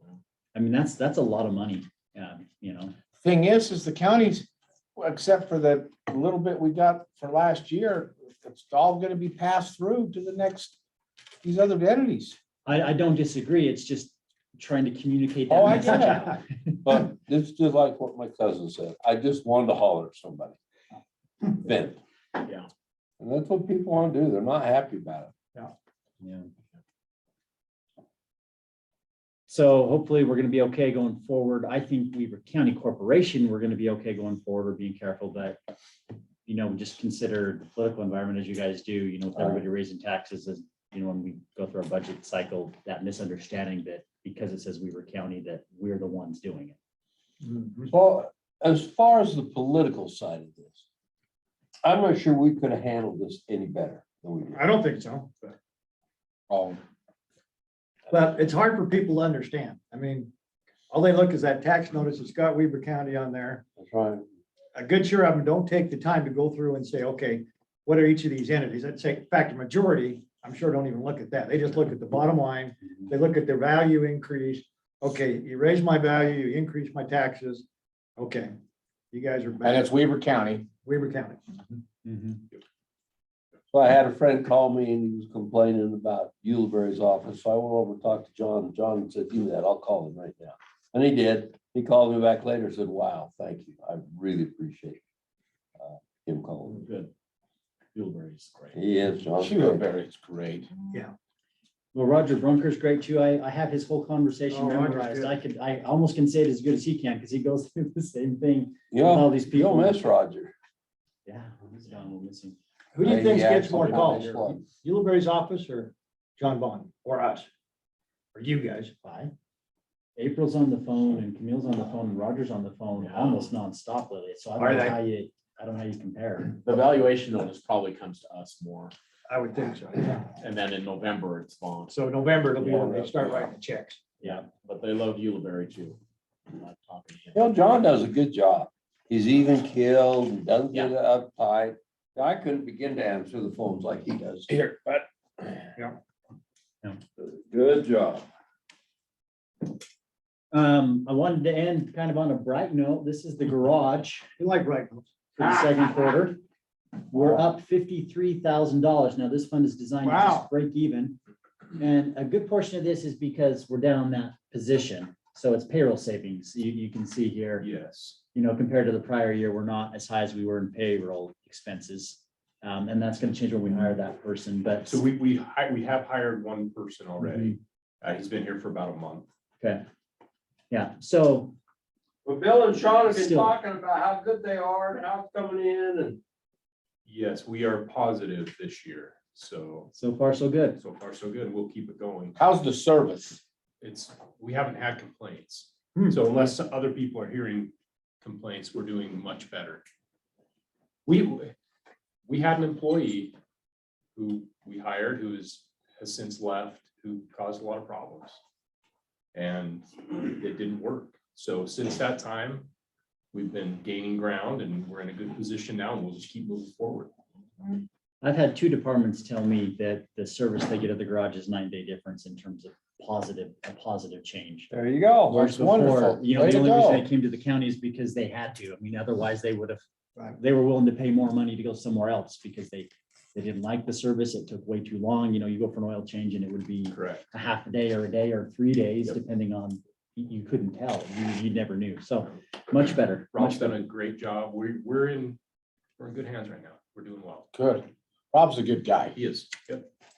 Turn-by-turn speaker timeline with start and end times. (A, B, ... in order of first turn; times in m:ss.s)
0:00.6-0:02.9 A
0:03.2-0:10.8 B
0:11.4-0:12.4 B
0:12.6-0:16.8 A
0:15.5-0:16.3 B
0:16.8-0:20.6 C
0:21.5-0:22.0 C
0:22.4-0:22.7 D
0:23.2-0:25.3 C
0:26.2-0:26.5 A
0:29.5-0:35.6 A
0:36.4-0:46.8 A
0:47.4-0:47.9 E
0:47.9-0:50.8 C
0:51.8-0:54.6 C
0:54.5-0:55.6 E
0:56.5-0:56.8 B
0:58.1-1:00.3 E
1:00.9-1:03.6 E
1:03.8-1:04.2 C
1:04.8-1:17.6 E
1:18.2-1:18.5 E
1:19.1-1:19.9 E
1:19.6-1:20.7 B
1:20.8-1:21.8 E
1:22.0-1:22.4 A
1:23.7-1:35.0 C
1:35.8-1:36.8 C
1:36.7-1:37.1 D
1:37.9-1:38.8 D
1:38.7-1:39.8 C
1:39.4-1:40.7 B
1:41.9-1:50.1 A
1:44.5-1:45.3 E
1:48.9-1:50.5 C
1:51.3-1:52.6 A
1:53.0-1:57.5 E
1:53.0-1:54.7 C
1:58.4-1:59.3 E
2:00.2-2:06.6 A
2:03.0-2:03.5 D
2:04.6-2:05.0 E
2:06.6-2:09.0 D
2:09.3-2:10.3 E
2:10.4-2:11.9 D
2:11.9-2:14.0 E
2:12.7-2:13.4 D
2:14.2-2:17.8 D
2:17.4-2:25.7 C
2:27.2-2:28.3 C
2:30.5-2:34.3 A
2:34.4-2:35.4 E
2:35.4-2:36.4 A
2:37.1-2:41.2 A
2:40.0-2:40.5 E
2:41.8-2:47.7 A
2:47.6-2:48.2 F
2:48.3-2:55.0 A
2:54.9-2:59.3 F
2:57.2-2:57.6 A
2:59.6-2:59.8 A
3:00.7-3:01.6 A
3:02.2-3:06.2 C
3:02.9-3:03.5 A
3:07.1-3:09.9 F
3:09.9-3:10.8 A
3:10.8-3:12.4 F
3:12.4-3:13.4 B
3:13.8-3:19.8 F
3:21.1-3:21.5 F
3:22.3-3:23.4 F
3:24.2-3:28.4 F
3:29.3-3:32.7 F
3:33.3-3:37.1 F
3:38.2-3:44.7 A
3:44.7-3:45.5 C
3:45.3-3:47.1 B
3:45.3-3:49.8 A
3:50.4-4:03.8 A
3:56.9-3:57.3 F
4:03.3-4:05.4 F
4:06.0-4:07.5 F
4:07.5-4:09.2 B
4:09.1-4:09.9 F